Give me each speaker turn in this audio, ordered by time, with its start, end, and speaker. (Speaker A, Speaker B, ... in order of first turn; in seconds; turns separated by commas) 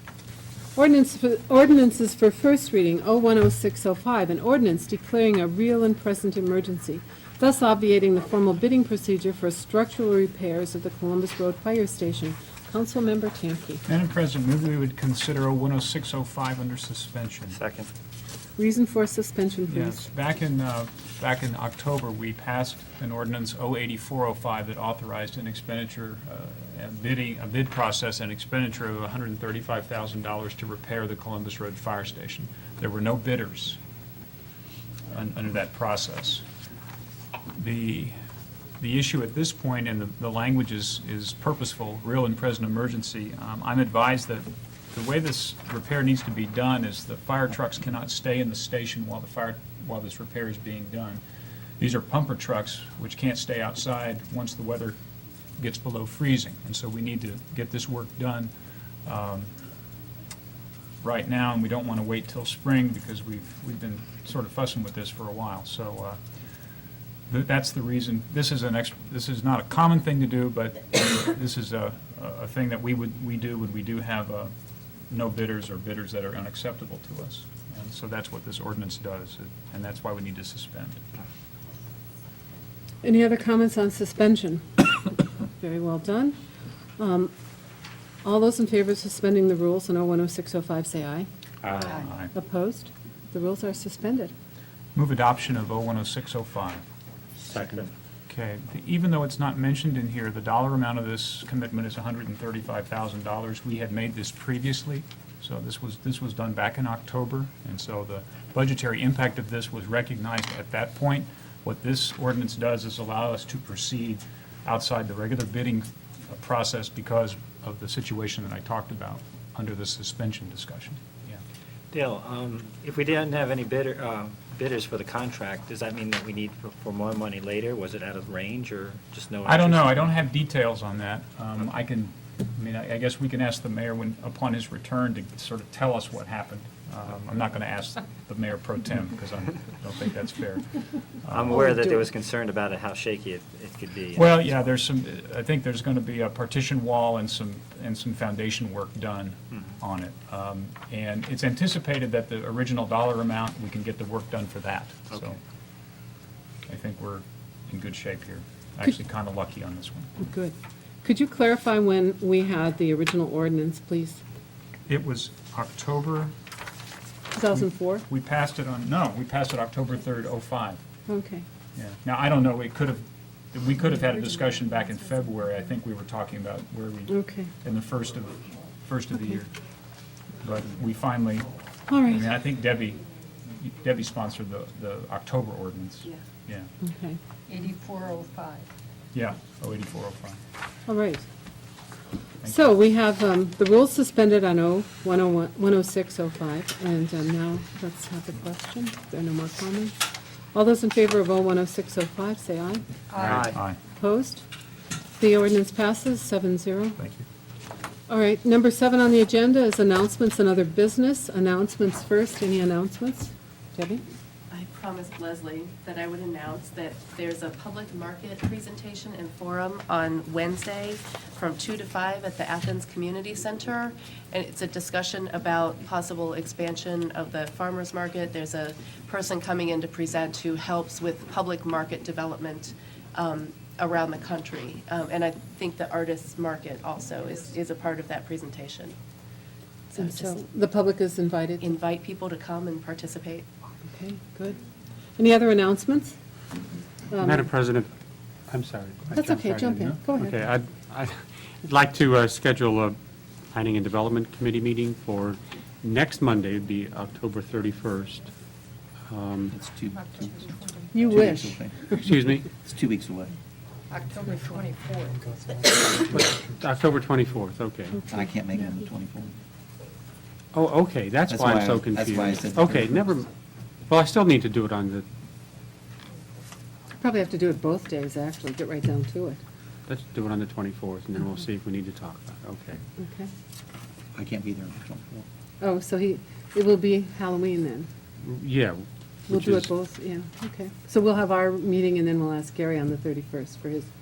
Speaker A: 0.8-13.8, Speaker B: 13.9-17.6, Speaker C: 17.5-17.9, Speaker A: 18.6-20.1, Speaker B: 19.7-33.8, Speaker B: 35.1-36.4, Speaker B: 37.6-38.1, Speaker B: 38.8-51.2, Speaker B: 51.8-55.0, Speaker B: 55.6-58.5, Speaker B: 59.0-59.5, Speaker B: 61.0-66.2, Speaker B: 67.3-74.5, Speaker B: 75.1-81.0, Speaker A: 83.0-86.4, Speaker A: 87.0-87.3, Speaker A: 88.2-91.3, Speaker B: 91.6-92.3, Speaker A: 91.8-94.3, Speaker B: 95.0-96.8, Speaker C: 97.5-97.9, Speaker B: 98.3-121.4, Speaker C: 121.9-130.1, Speaker B: 129.4-140.7, Speaker B: 141.2-141.8, Speaker C: 141.3-144.6, Speaker B: 144.1-155.4, Speaker C: 155.1-155.4, Speaker B: 156.7-160.1, Speaker A: 160.2-164.2, Speaker B: 164.9-166.3, Speaker A: 167.3-168.1, Speaker B: 167.5-170.8, Speaker A: 171.1-171.4, Speaker B: 171.8-179.5, Speaker A: 177.1-177.5, Speaker B: 180.4-181.5, Speaker A: 181.9-182.3, Speaker B: 182.0-186.7, Speaker A: 186.8-187.2, Speaker D: 187.5-188.7, Speaker B: 189.1-190.4, Speaker A: 190.9-191.3, Speaker A: 192.4-200.0, Speaker A: 200.5-203.4, Speaker D: 203.1-203.5, Speaker B: 203.1-203.8, Speaker C: 203.3-203.6, Speaker A: 203.9-204.4, Speaker A: 205.2-207.0, Speaker B: 207.0-207.2, Speaker A: 208.1-214.0, Speaker E: 214.5-238.9, Speaker A: 239.9-241.7, Speaker E: 239.9-240.4, Speaker E: 241.6-243.4, Speaker A: 243.9-244.6, Speaker A: 245.2-246.2, Speaker A: 247.1-247.5, Speaker F: 247.2-247.9, Speaker F: 248.5-253.0, Speaker A: 249.1-250.4, Speaker F: 253.5-258.3, Speaker F: 259.1-259.6, Speaker G: 259.5-261.8, Speaker D: 260.0-261.1, Speaker A: 260.9-262.1, Speaker F: 262.0-262.5, Speaker G: 262.6-263.4, Speaker D: 263.9-266.0, Speaker F: 266.1-268.1, Speaker G: 268.1-269.4, Speaker F: 270.5-273.3, Speaker G: 271.3-273.1, Speaker F: 273.9-275.1, Speaker A: 277.0-279.4, Speaker F: 279.9-282.8, Speaker A: 283.0-283.3, Speaker G: 284.1-285.3, Speaker A: 285.6-287.9, Speaker F: 288.2-289.7, Speaker A: 289.3-293.9